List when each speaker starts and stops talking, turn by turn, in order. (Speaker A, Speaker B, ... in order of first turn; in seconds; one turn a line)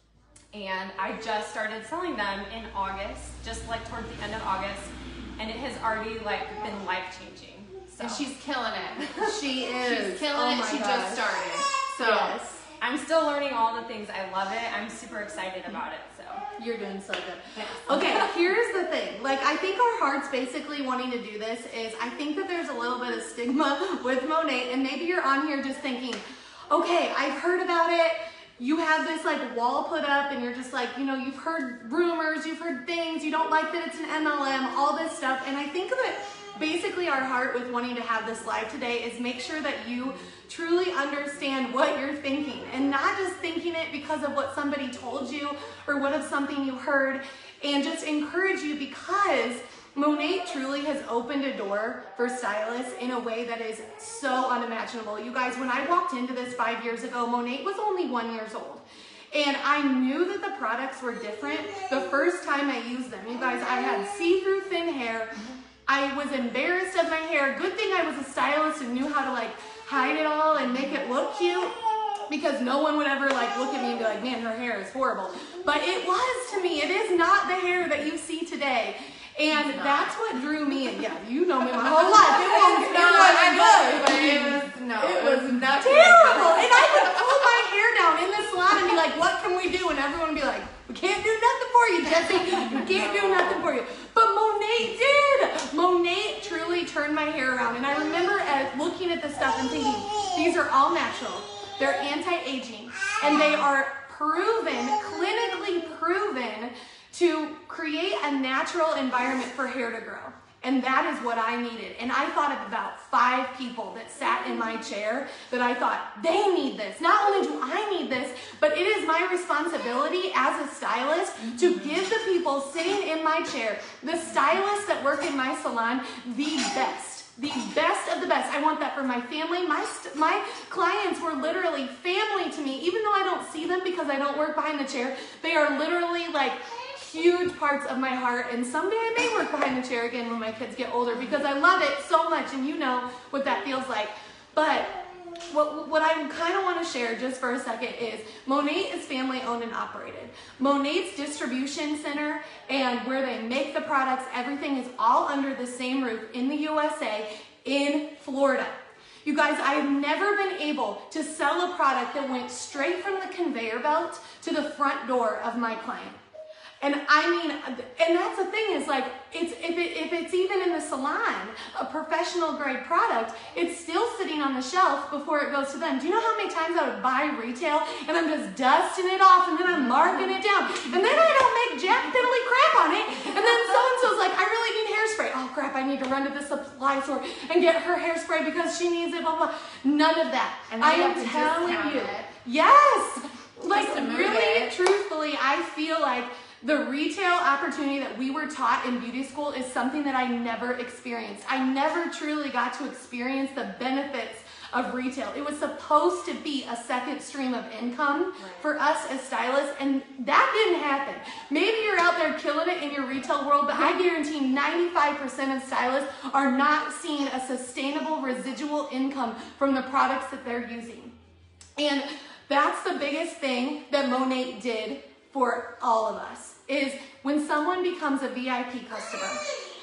Speaker A: 0.5-8.2
Speaker B: 8.0-12.4
Speaker C: 9.2-12.7
Speaker A: 12.8-16.4
Speaker C: 16.6-166.2
Speaker A: 17.6-18.3
Speaker B: 79.5-80.1
Speaker B: 81.7-87.6
Speaker B: 92.7-93.6
Speaker C: 166.8-221.1
Speaker B: 180.8-181.3
Speaker B: 190.7-192.2
Speaker B: 193.7-194.7
Speaker A: 208.4-208.7
Speaker C: 221.8-229.4